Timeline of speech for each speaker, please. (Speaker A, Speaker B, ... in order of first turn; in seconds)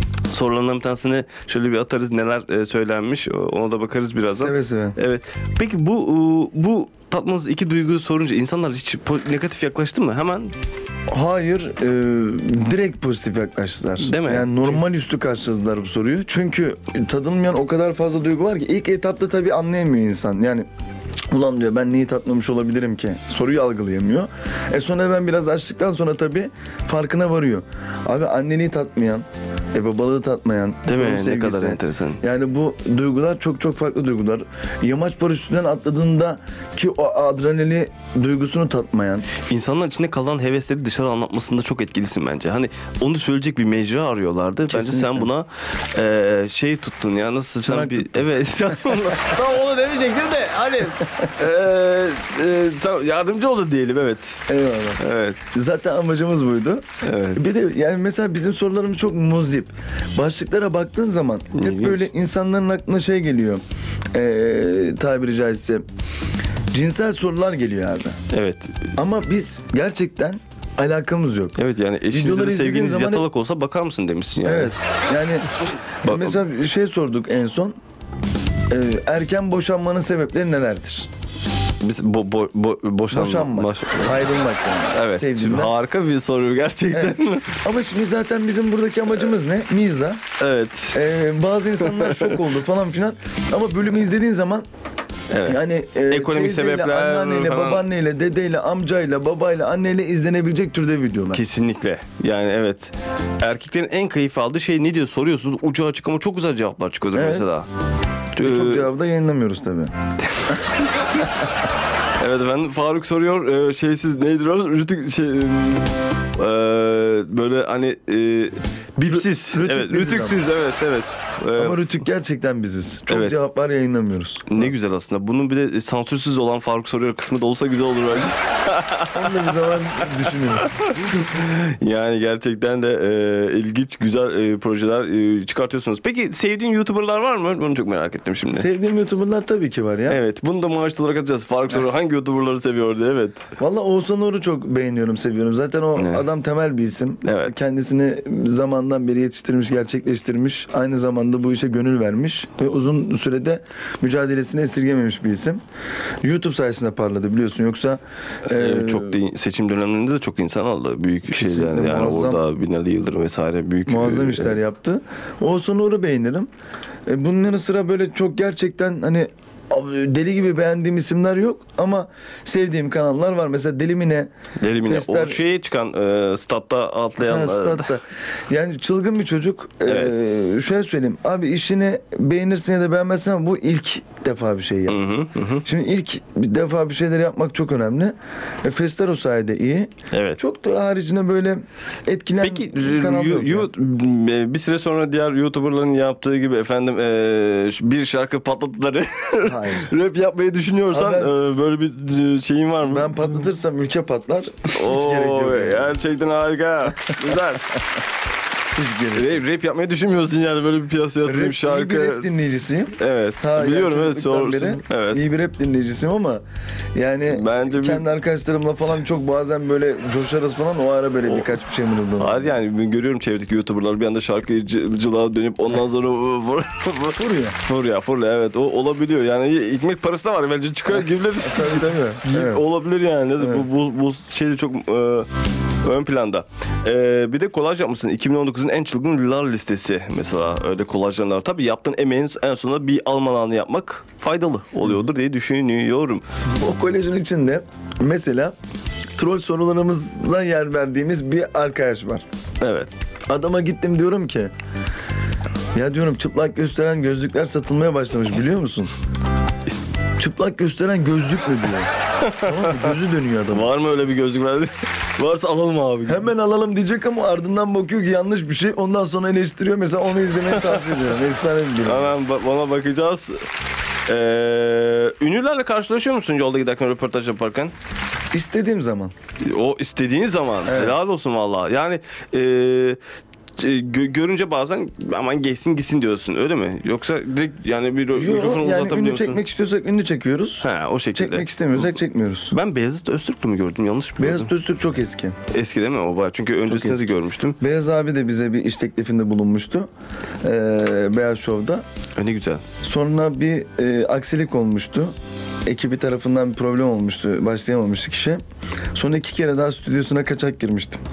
Speaker A: 0.3-10.5, 14.0-14.8, 30.9-32.2, 39.3-54.5, 55.0-55.4, 57.0-57.4, 61.5-62.1, 68.3-68.8, 71.6-74.8, 76.0-76.4, 81.8-84.2, 84.9-87.6, 90.4-91.0, 91.8-92.4, 95.3-97.8, 101.3-107.7, 108.3-108.9, 110.3-110.7, 112.2-121.8, 123.1-123.3, 124.5-129.6, 130.6-138.7, 140.1-143.4, 145.9-146.2, 147.2-147.6, 158.4-164.6, 174.6-177.9, 179.8-180.1, 184.9-185.7, 190.1-190.4, 192.4-203.3, 204.7-207.8, 209.1-212.3, 213.0-215.2, 217.3-218.1, 221.2-221.5, 222.2-235.3, 235.8-246.2, 252.6-252.9, 262.2-262.8, 263.5-266.3, 270.5-271.0, 271.8-273.4, 274.1-277.7, 279.4-283.0, 283.6-289.4, 290.6-291.9, 292.5-294.5, 295.5-297.6, 302.2-302.6
Speaker B: 4.3-5.0, 11.1-20.7, 21.3-39.3, 44.7-45.3, 47.6-49.1, 54.5-65.8, 66.7-68.2, 69.0-71.6, 72.1-73.3, 74.4-77.7, 78.7-81.1, 83.1-85.7, 86.9-90.2, 90.9-94.6, 95.4-101.4, 107.1-107.5, 108.4-109.9, 119.0-120.4, 121.5-124.7, 129.1-131.0, 138.5-140.2, 143.6-155.6, 156.2-159.2, 161.3-162.4, 163.8-166.5, 167.1-174.3, 174.8-175.4, 177.2-185.1, 185.6-193.7, 199.4-199.9, 200.9-201.3, 202.8-205.9, 206.9-207.4, 208.7-209.4, 211.2-216.4, 216.9-222.5, 227.2-227.6, 230.9-232.6, 233.4-233.7, 246.6-248.5, 249.2-252.2, 253.3-254.5, 255.7-258.9, 260.2-263.7, 266.1-272.1, 278.3-279.1, 280.6-280.9, 288.1-292.5, 294.2-295.4, 296.7-299.9, 300.4-301.8, 302.8-305.1, 305.6-308.4, 308.9-311.0